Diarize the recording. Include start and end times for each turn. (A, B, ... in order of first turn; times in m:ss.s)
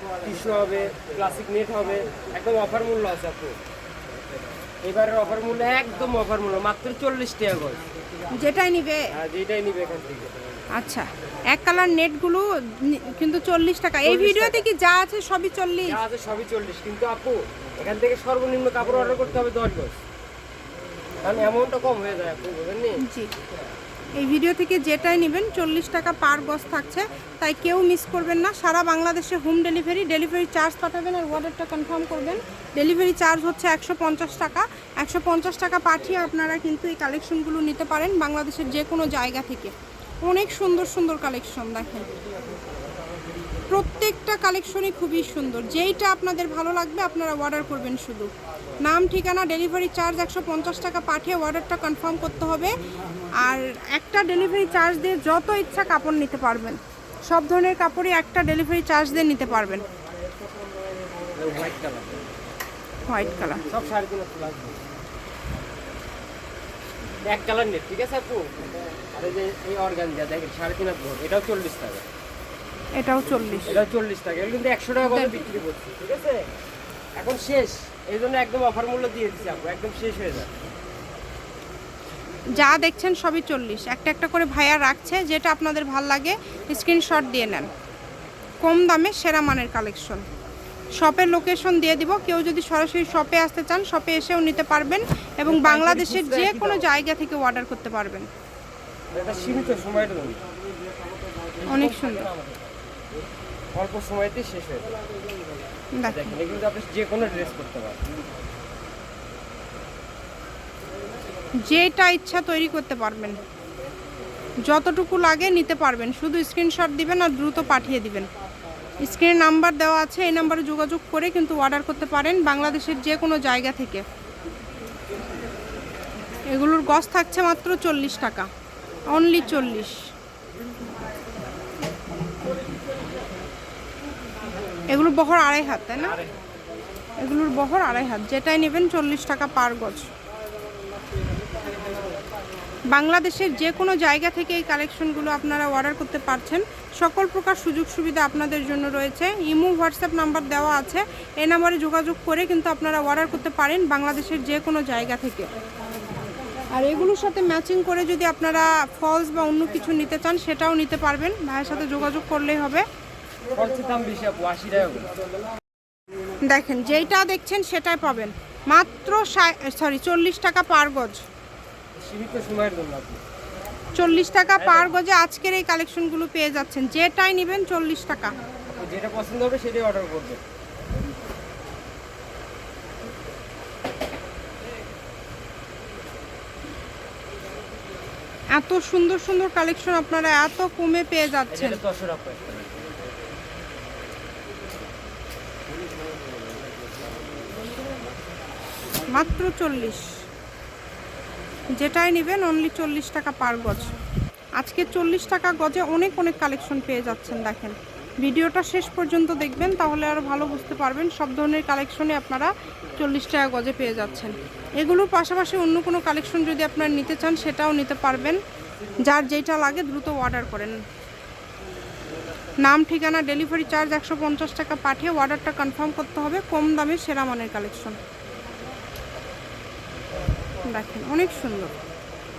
0:00.2-0:03.6 A
0:04.8-0:07.8 A
0:08.4-0:09.1 B
0:09.1-0:10.3 A
0:10.8-0:16.0 B
0:14.0-0:14.6 A
0:15.8-0:20.0 A
0:21.2-0:23.0 A
0:23.0-0:23.3 B
0:24.2-0:42.1 B
0:43.7-0:48.3 B
0:48.8-0:52.7 B
0:53.4-0:59.8 B
1:01.4-1:02.2 A
1:03.1-1:03.6 B
1:03.7-1:04.7 A
1:07.3-1:12.0 A
1:13.0-1:13.7 B
1:13.7-1:16.4 A
1:15.0-1:15.4 B
1:17.2-1:20.5 A
1:22.5-1:27.7 B
1:28.6-1:30.2 B
1:31.0-1:38.3 B
1:35.4-1:36.9 A
1:39.1-1:40.4 A
1:41.6-1:42.7 A
1:41.6-1:42.3 B
1:43.7-1:45.0 A
1:45.9-1:46.3 B
1:46.0-1:48.0 A
1:51.6-1:53.4 B
1:54.7-1:58.3 B
1:59.0-2:04.0 B
2:06.5-2:08.5 B
2:09.1-2:10.0 B
2:14.9-2:16.2 B
2:16.0-2:16.3 A
2:17.2-2:20.1 B
2:22.9-2:35.5 B
2:36.7-2:42.8 B
2:43.5-2:45.1 A
2:46.4-2:51.2 B
2:52.0-2:53.2 A
2:54.0-2:58.3 B
2:54.6-2:55.0 A
2:58.8-3:00.4 A
3:08.5-3:11.8 B
3:11.5-3:12.8 A
3:19.1-3:20.1 B
3:21.8-3:23.9 B
3:24.6-3:38.4 B
3:39.0-3:40.8 B
3:42.6-3:47.9 B
3:50.6-3:51.7 B